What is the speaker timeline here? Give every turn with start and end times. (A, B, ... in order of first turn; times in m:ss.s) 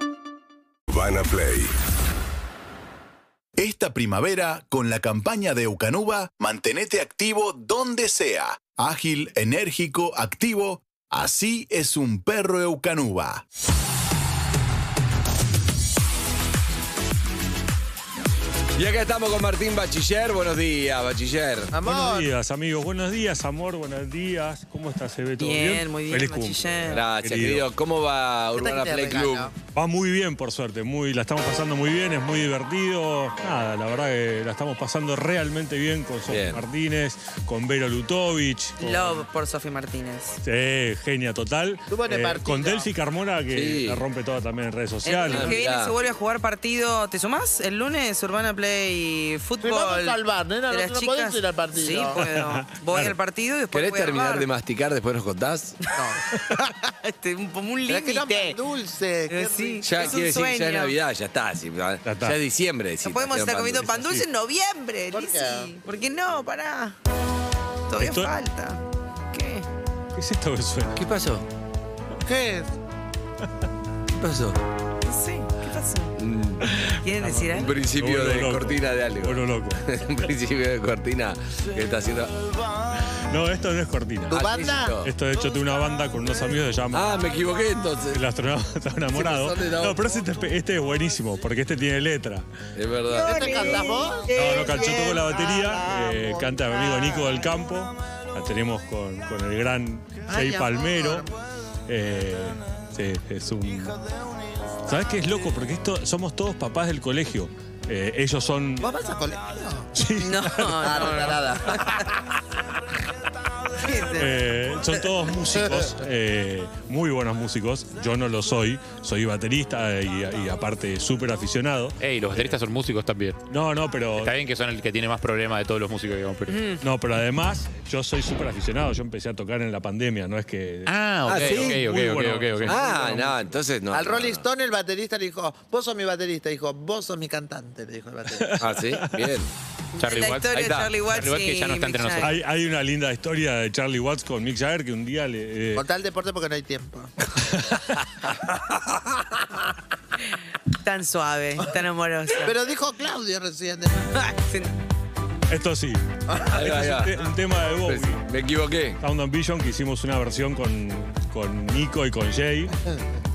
0:00.9-0:01.7 A
0:03.6-0:13.4 A
0:18.8-0:21.7 B
0:21.7-0:22.3 C
0:21.8-0:27.7 D
0:25.4-0:27.0 E
0:26.9-0:29.5 B
0:28.5-0:29.5 C
0:29.7-0:39.2 D
0:36.3-0:36.6 B
0:38.8-0:40.4 E
0:40.4-0:45.6 D
0:41.9-0:42.9 C
0:43.5-0:44.0 B
0:45.0-0:54.5 E
0:45.3-0:46.0 B
0:49.6-0:52.3 C
0:52.1-0:53.1 D
0:53.7-0:55.8 B
0:55.8-0:58.6 E
0:55.9-0:56.8 C
0:57.9-1:00.3 C
0:59.3-1:01.0 E
0:59.8-1:04.2 B
1:02.0-1:02.4 D
1:03.0-1:07.0 E
1:05.1-1:05.7 C
1:07.9-1:09.7 E
1:08.0-1:08.3 D
1:10.1-1:11.0 D
1:10.9-1:11.5 B
1:12.2-1:12.7 C
1:14.2-1:14.6 B
1:15.0-1:16.2 E
1:16.2-1:16.7 B
1:16.6-1:20.1 D
1:16.9-1:17.9 E
1:17.6-1:22.3 B
1:23.3-1:24.4 D
1:24.3-1:25.0 C
1:24.3-1:25.1 B
1:25.0-1:27.2 D
1:26.9-1:28.2 B
1:28.1-1:32.4 D
1:29.1-1:30.0 B
1:32.8-1:33.9 B
1:33.1-1:37.0 E
1:33.2-1:34.6 C
1:34.3-1:41.3 D
1:40.3-1:41.3 C
1:41.9-1:44.0 D
1:44.8-1:48.9 D
1:48.8-1:49.9 C
1:49.9-1:51.3 D
1:50.2-1:51.4 E
1:50.8-1:52.1 C
1:53.8-1:54.3 C
1:54.1-2:02.6 D
2:02.0-2:03.4 F
2:03.5-2:04.4 D
2:04.2-2:06.7 F
2:06.5-2:06.8 E
2:06.8-2:13.6 D
2:10.8-2:12.8 F
2:11.3-2:11.8 B
2:12.6-2:14.4 B
2:13.9-2:18.7 C
2:18.4-2:19.4 D
2:18.6-2:19.5 B
2:20.0-2:22.3 E
2:20.0-2:22.4 F
2:20.5-2:21.0 B
2:22.2-2:25.9 D
2:25.7-2:27.3 C
2:27.5-2:28.4 D
2:30.7-2:32.5 E
2:32.4-2:34.2 C
2:34.2-2:34.7 E
2:35.5-2:38.3 D
2:36.3-2:36.6 C
2:36.5-2:37.2 B
2:37.8-2:39.0 B
2:39.0-2:42.8 D